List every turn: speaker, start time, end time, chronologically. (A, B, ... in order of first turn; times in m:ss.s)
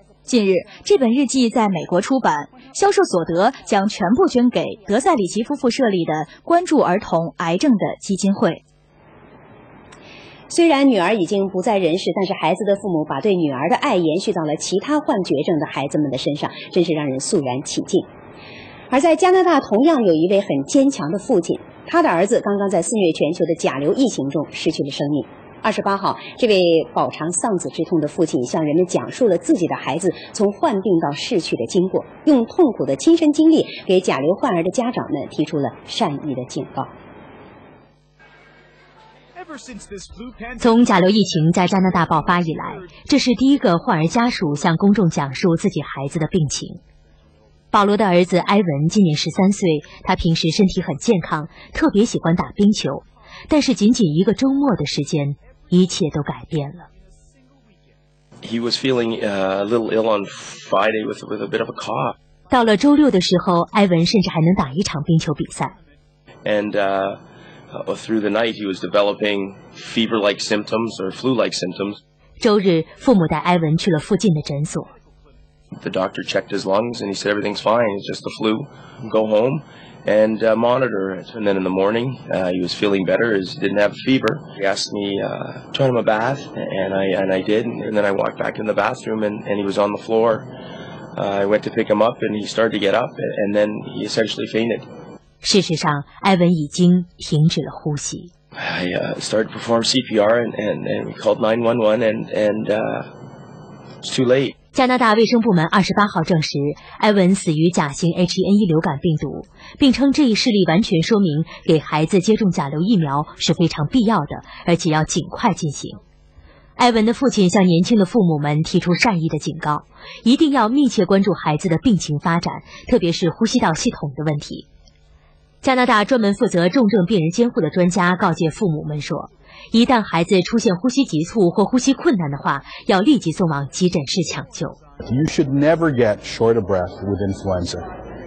0:00.3-0:08.6 A
0:10.5-0:18.1 B
0:18.9-0:36.9 B
0:40.6-0:46.8 C
0:47.7-0:56.8 C
0:58.4-1:02.2 D
1:02.5-1:05.7 C
1:06.4-1:07.2 D
1:07.7-1:12.0 D
1:12.4-1:14.9 C
1:15.8-1:30.5 D
1:31.2-1:34.8 D
1:35.4-1:38.3 C
1:38.6-1:43.1 D
1:44.0-1:44.6 D
1:44.7-1:56.0 C
1:56.8-2:04.7 C
2:05.6-2:14.8 C
2:15.0-2:17.9 E